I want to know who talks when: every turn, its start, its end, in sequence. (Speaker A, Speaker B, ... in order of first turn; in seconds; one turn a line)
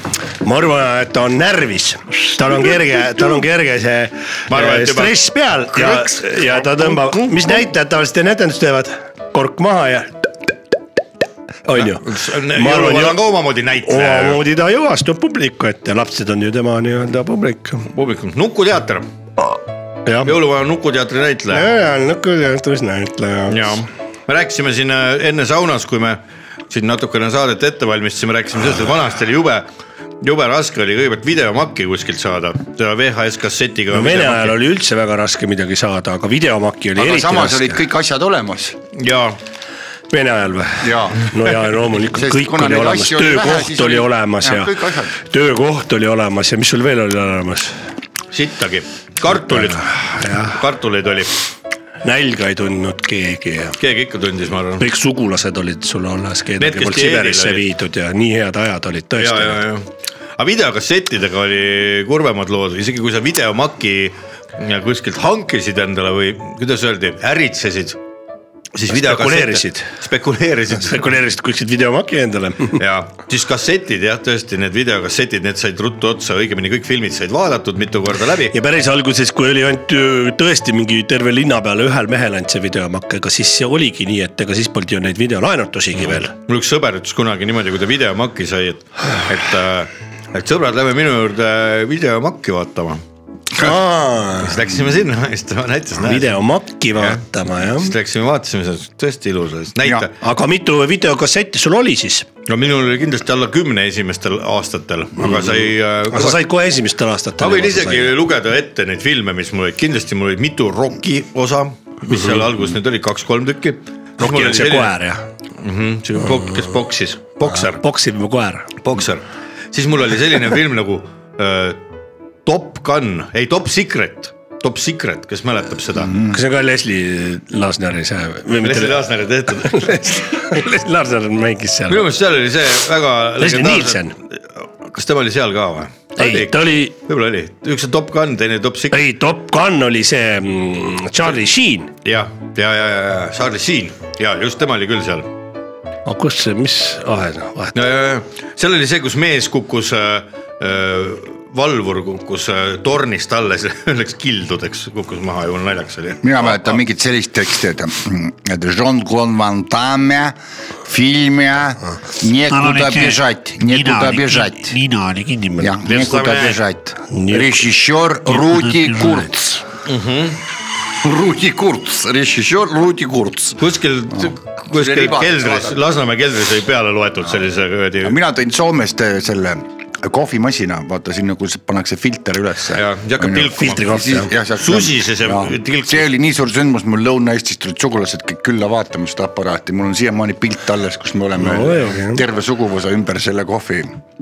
Speaker A: 0.4-10.3
Speaker B: 4.5-5.2
Speaker C: 5.8-7.5
Speaker A: 11.7-13.2
Speaker B: 11.8-14.4
Speaker A: 13.8-17.9
Speaker B: 17.9-19.1
Speaker A: 20.1-20.4
Speaker B: 20.2-21.7
Speaker A: 21.5-23.8
Speaker B: 23.5-29.7
Speaker B: 30.2-34.6
Speaker A: 33.9-37.8
Speaker C: 37.0-38.8
Speaker B: 39.0-39.4
Speaker A: 40.1-47.8
Speaker C: 40.8-41.3
Speaker C: 42.1-45.1
Speaker B: 48.3-51.3
Speaker A: 49.3-50.6
Speaker A: 52.0-53.8
Speaker B: 53.8-54.8
Speaker A: 54.8-59.6
Speaker B: 56.6-57.6
Speaker B: 59.2-59.9
Speaker B: 60.4-68.0
Speaker B: 68.7-71.1
Speaker A: 68.9-69.9
Speaker A: 70.8-72.8
Speaker B: 72.8-78.5
Speaker A: 78.5-86.3
Speaker B: 86.0-93.0
Speaker A: 93.5-94.6
Speaker B: 94.4-96.3
Speaker A: 96.0-97.9
Speaker B: 97.0-100.1
Speaker C: 99.8-100.1
Speaker A: 100.2-102.3
Speaker B: 102.5-106.4
Speaker A: 105.2-108.1
Speaker B: 107.4-114.9
Speaker A: 114.2-115.2
Speaker B: 115.6-117.8
Speaker A: 117.5-118.7
Speaker B: 118.8-121.8
Speaker B: 122.5-126.1
Speaker C: 125.9-126.4
Speaker A: 126.3-129.0
Speaker B: 128.6-130.0
Speaker A: 129.6-132.1
Speaker B: 131.9-134.0
Speaker A: 133.4-134.1
Speaker B: 134.9-139.0
Speaker A: 136.2-136.9
Speaker A: 138.9-141.9
Speaker B: 142.0-145.3
Speaker A: 146.1-147.7
Speaker B: 147.7-156.6
Speaker C: 156.2-164.8
Speaker A: 162.5-165.7
Speaker C: 165.6-169.6
Speaker B: 165.8-166.6
Speaker A: 167.1-167.7
Speaker A: 168.3-169.3
Speaker B: 169.8-170.4
Speaker C: 171.0-173.6
Speaker B: 173.6-178.2
Speaker C: 174.1-175.8
Speaker C: 178.0-194.0
Speaker B: 182.7-186.1
Speaker A: 183.5-184.3
Speaker A: 191.4-192.2